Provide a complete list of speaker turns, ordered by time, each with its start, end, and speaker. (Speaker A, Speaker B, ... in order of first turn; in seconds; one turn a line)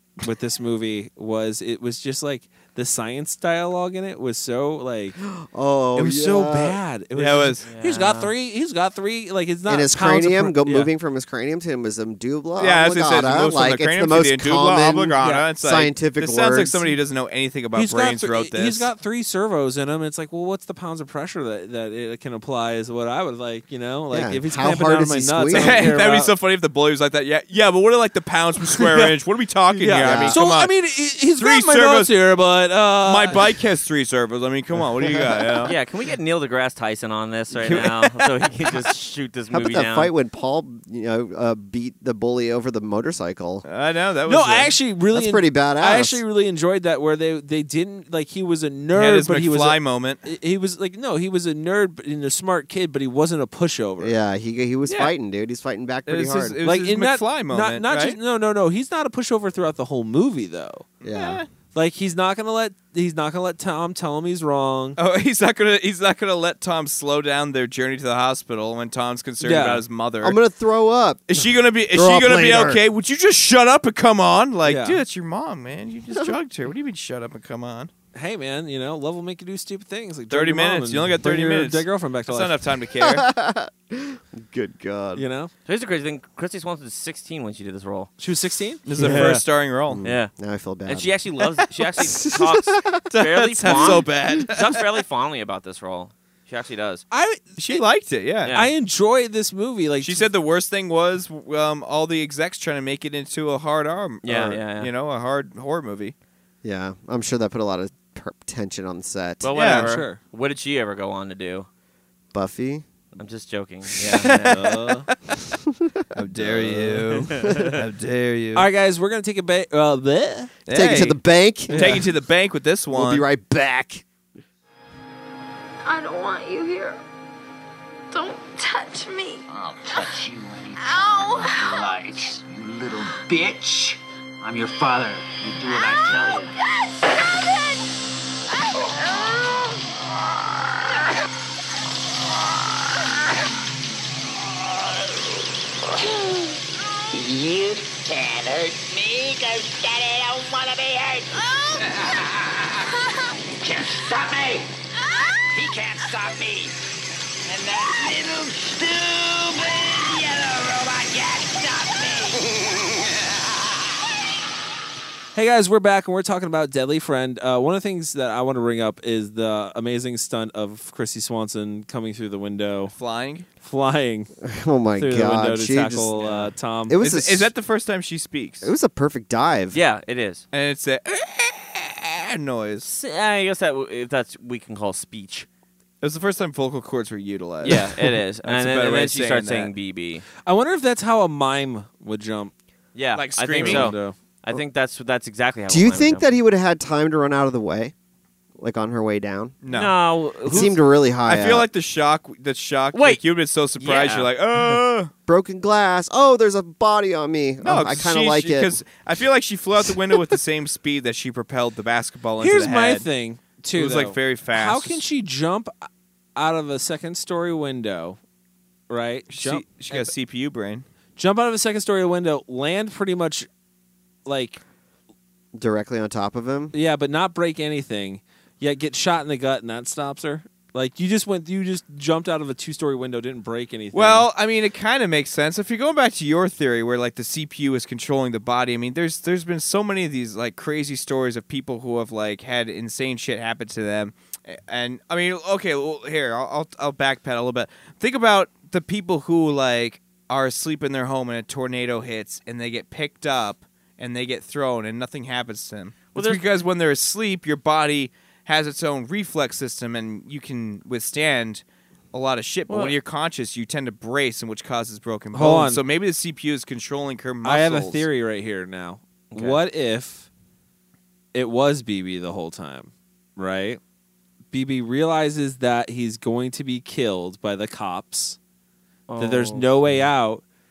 Speaker A: 0.2-5.2
Speaker B: 5.2-6.8
Speaker A: 5.9-10.9
Speaker C: 7.2-7.6
Speaker D: 7.7-8.3
Speaker B: 9.7-16.9
Speaker C: 12.6-18.9
Speaker A: 15.2-15.4
Speaker A: 17.7-26.3
Speaker B: 24.1-25.9
Speaker C: 25.5-30.7
Speaker A: 28.8-29.1
Speaker A: 29.7-33.5
Speaker B: 30.0-30.4
Speaker C: 31.4-32.1
Speaker C: 33.0-35.7
Speaker B: 35.1-35.5
Speaker D: 35.6-40.1
Speaker C: 37.5-38.3
Speaker B: 39.5-43.6
Speaker C: 43.6-44.8
Speaker A: 44.3-54.1
Speaker B: 45.1-46.2
Speaker C: 48.9-50.2
Speaker B: 54.0-56.6
Speaker C: 56.1-58.2
Speaker A: 56.6-60.9
Speaker B: 61.0-61.4
Speaker C: 61.0-61.5
Speaker A: 61.7-65.0
Speaker C: 65.0-70.4
Speaker A: 69.4-69.8
Speaker B: 70.2-71.4
Speaker C: 71.3-77.9
Speaker B: 71.9-72.8
Speaker A: 74.6-75.0
Speaker A: 78.1-82.6
Speaker C: 80.3-83.3
Speaker B: 83.0-85.2
Speaker A: 85.1-85.5
Speaker D: 85.7-88.1
Speaker A: 88.2-89.4
Speaker C: 88.9-90.0
Speaker B: 89.9-93.1
Speaker D: 90.0-90.3
Speaker D: 90.9-97.0
Speaker C: 93.1-94.8
Speaker B: 93.6-94.4
Speaker A: 97.1-97.8
Speaker C: 97.6-98.5
Speaker D: 98.4-98.7
Speaker A: 98.5-100.3
Speaker C: 100.0-106.1
Speaker D: 104.2-104.9
Speaker B: 106.6-109.5
Speaker D: 109.4-111.7
Speaker C: 109.5-109.9
Speaker A: 109.7-110.2
Speaker B: 112.3-112.8
Speaker D: 113.2-114.6
Speaker B: 114.0-114.3
Speaker A: 114.5-115.1
Speaker B: 115.5-116.7
Speaker C: 116.1-118.7
Speaker A: 116.5-117.7
Speaker A: 118.5-121.1
Speaker C: 120.7-121.2
Speaker B: 120.7-122.0
Speaker A: 121.7-122.1
Speaker C: 121.7-123.2
Speaker B: 122.9-124.0
Speaker E: 125.8-127.0
Speaker E: 128.1-129.4
Speaker F: 129.5-136.6
Speaker E: 130.8-131.9
Speaker F: 147.2-152.2
Speaker F: 153.6-154.7
Speaker F: 155.5-156.7
Speaker F: 157.5-162.6
Speaker A: 165.3-172.9
Speaker C: 172.9-173.5
Speaker A: 173.6-174.3
Speaker B: 174.4-177.5
Speaker A: 175.0-177.0
Speaker C: 177.0-178.7
Speaker B: 178.6-179.8
Speaker D: 179.7-180.4
Speaker C: 180.5-182.9
Speaker D: 182.8-185.5
Speaker C: 186.0-189.7
Speaker D: 187.6-190.3
Speaker A: 190.4-192.5
Speaker D: 192.9-196.3
Speaker C: 193.1-193.9
Speaker A: 193.6-194.2
Speaker B: 195.7-197.9
Speaker B: 198.6-199.6
Speaker C: 199.6-205.1
Speaker D: 199.7-200.7
Speaker B: 200.4-201.7
Speaker D: 202.9-203.2
Speaker D: 203.8-204.3
Speaker B: 205.3-208.7
Speaker C: 207.6-213.1
Speaker B: 209.9-210.3
Speaker A: 212.4-215.7
Speaker C: 213.7-215.0
Speaker A: 216.4-218.2
Speaker A: 218.9-220.1
Speaker C: 219.3-220.8
Speaker A: 221.2-223.5
Speaker A: 224.3-224.6
Speaker B: 225.6-226.7
Speaker A: 226.7-234.3
Speaker C: 233.9-268.1
Speaker D: 256.1-256.4
Speaker D: 262.7-262.9
Speaker A: 265.3-265.8
Speaker A: 267.4-270.3
Speaker D: 269.3-269.6
Speaker A: 271.3-273.8
Speaker A: 274.5-278.4
Speaker D: 279.1-280.0
Speaker A: 279.2-280.4